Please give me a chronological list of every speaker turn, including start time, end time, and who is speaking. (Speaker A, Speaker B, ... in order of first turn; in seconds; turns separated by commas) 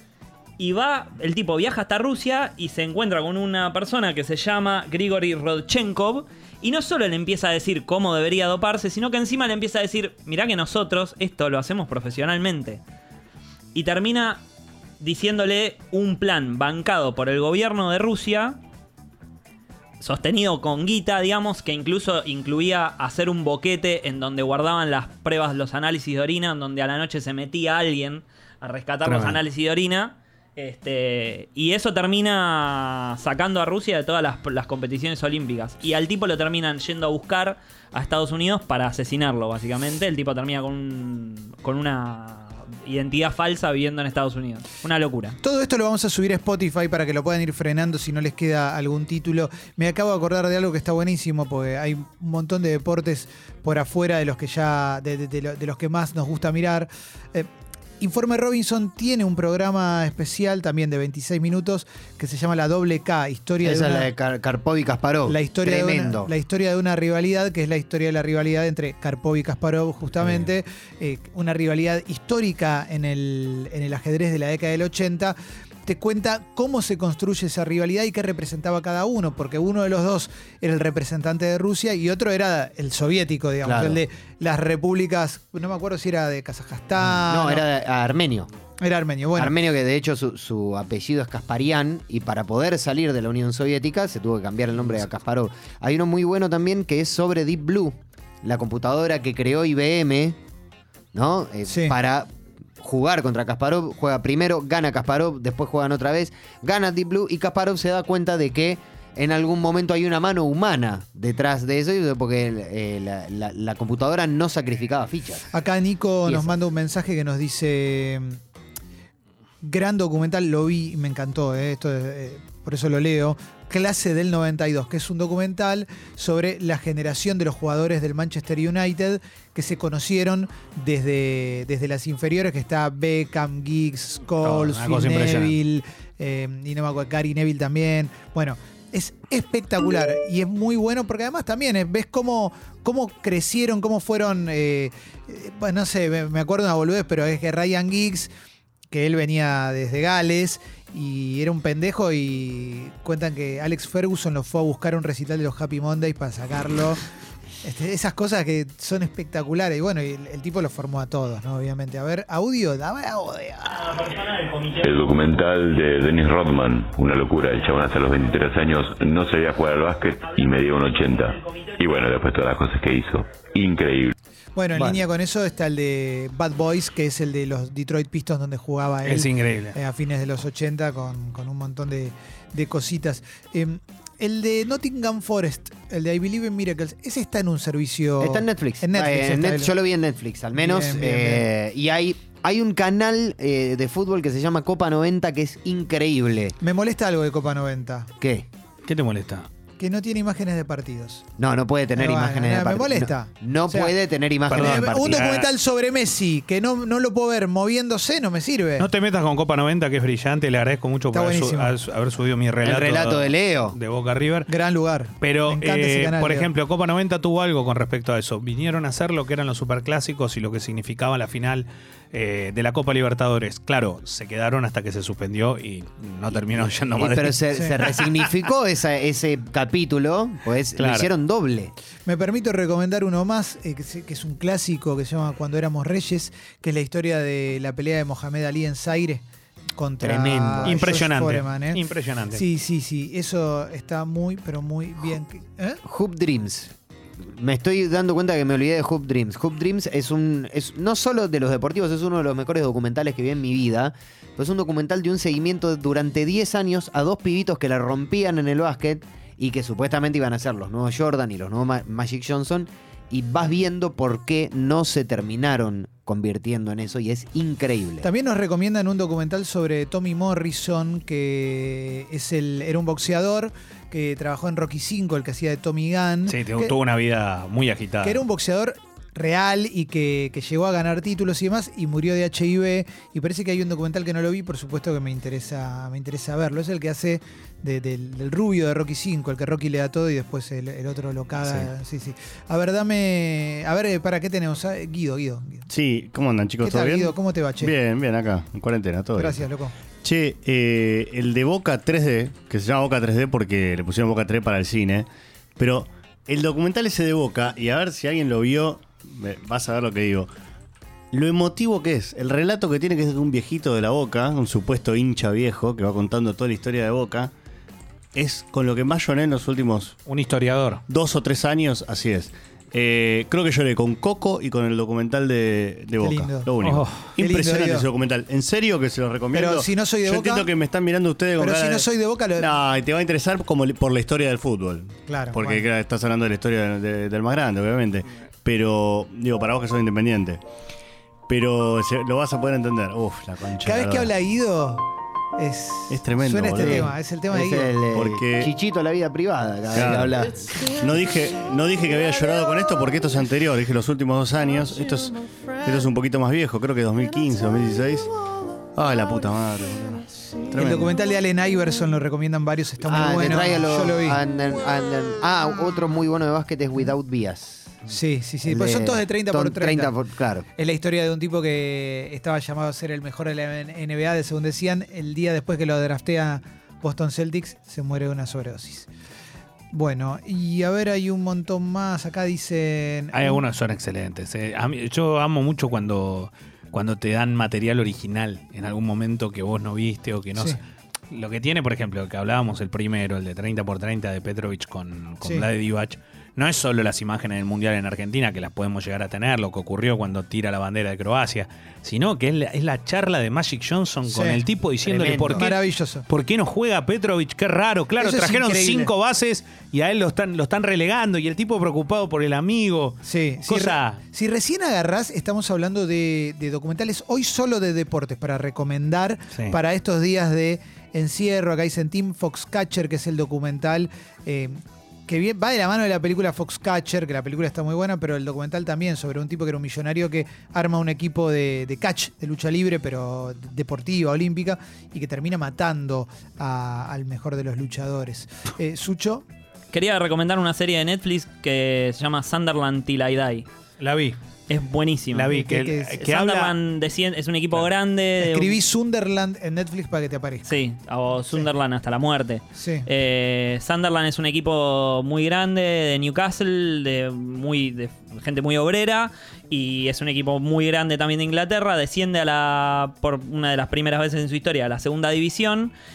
Speaker A: 0.6-12.8, Speaker A: 13.7-14.4, Speaker A: 15.0-18.6, Speaker A: 20.0-45.4, Speaker B: 29.1-29.4, Speaker C: 45.4-57.5, Speaker C: 58.0-64.1, Speaker D: 63.6-66.3, Speaker C: 65.3-87.6, Speaker D: 83.6-84.0, Speaker D: 87.2-88.5, Speaker C: 88.8-89.5, Speaker D: 89.4-100.4, Speaker D: 101.1-115.5, Speaker C: 101.7-102.0, Speaker C: 115.5-118.4, Speaker C: 119.6-148.3, Speaker B: 134.4-135.6, Speaker C: 148.9-157.0, Speaker C: 157.6-164.0, Speaker E: 164.8-174.2, Speaker C: 174.6-189.7, Speaker B: 179.1-179.8, Speaker D: 188.2-196.6, Speaker C: 190.6-191.5, Speaker C: 196.6-198.1, Speaker D: 198.2-198.5, Speaker B: 198.8-199.5, Speaker C: 199.8-201.2, Speaker D: 201.4-205.3, Speaker C: 202.0-203.9, Speaker B: 204.5-205.5, Speaker C: 204.5-208.9, Speaker B: 208.8-214.5, Speaker C: 211.1-211.7, Speaker D: 212.6-213.8, Speaker C: 214.5-216.5, Speaker B: 215.2-228.3, Speaker D: 226.3-231.7, Speaker B: 230.8-231.1, Speaker C: 232.1-239.2, Speaker C: 239.8-241.8, Speaker D: 240.0-241.0, Speaker B: 240.6-242.4, Speaker C: 242.3-245.8, Speaker D: 245.8-268.1, Speaker C: 268.0-276.7, Speaker B: 276.3-278.2, Speaker C: 278.0-295.7, Speaker F: 295.7-299.4, Speaker C: 296.6-297.7, Speaker C: 299.1-299.7, Speaker F: 300.0-310.3, Speaker F: 311.1-317.3, Speaker F: 318.1-320.0, Speaker B: 320.1-320.8, Speaker F: 320.9-340.4, Speaker C: 326.0-326.5, Speaker B: 326.6-326.9, Speaker C: 327.2-327.9, Speaker C: 329.3-330.5, Speaker C: 331.4-332.5, Speaker C: 335.1-335.7, Speaker F: 341.3-344.1, Speaker C: 343.6-347.7, Speaker F: 345.9-346.9, Speaker D: 346.6-350.7, Speaker F: 347.9-348.5, Speaker F: 349.7-350.1, Speaker F: 350.7-358.1, Speaker F: 358.7-360.9, Speaker C: 360.6-364.2, Speaker D: 362.9-367.8, Speaker C: 367.9-369.9, Speaker D: 368.4-370.4, Speaker C: 370.6-378.9, Speaker C: 379.7-383.4, Speaker B: 383.1-390.6, Speaker B: 391.1-414.0, Speaker C: 404.1-404.4, Speaker D: 404.9-405.4, Speaker C: 405.3-406.1, Speaker C: 408.0-408.9, Speaker C: 413.0-439.2, Speaker A: 439.7-443.5, Speaker B: 443.8-444.2, Speaker A: 444.5-445.4, Speaker B: 445.1-446.6, Speaker C: 445.3-445.9, Speaker A: 446.0-448.6, Speaker C: 448.2-450.6, Speaker A: 450.5-465.7, Speaker C: 452.6-452.9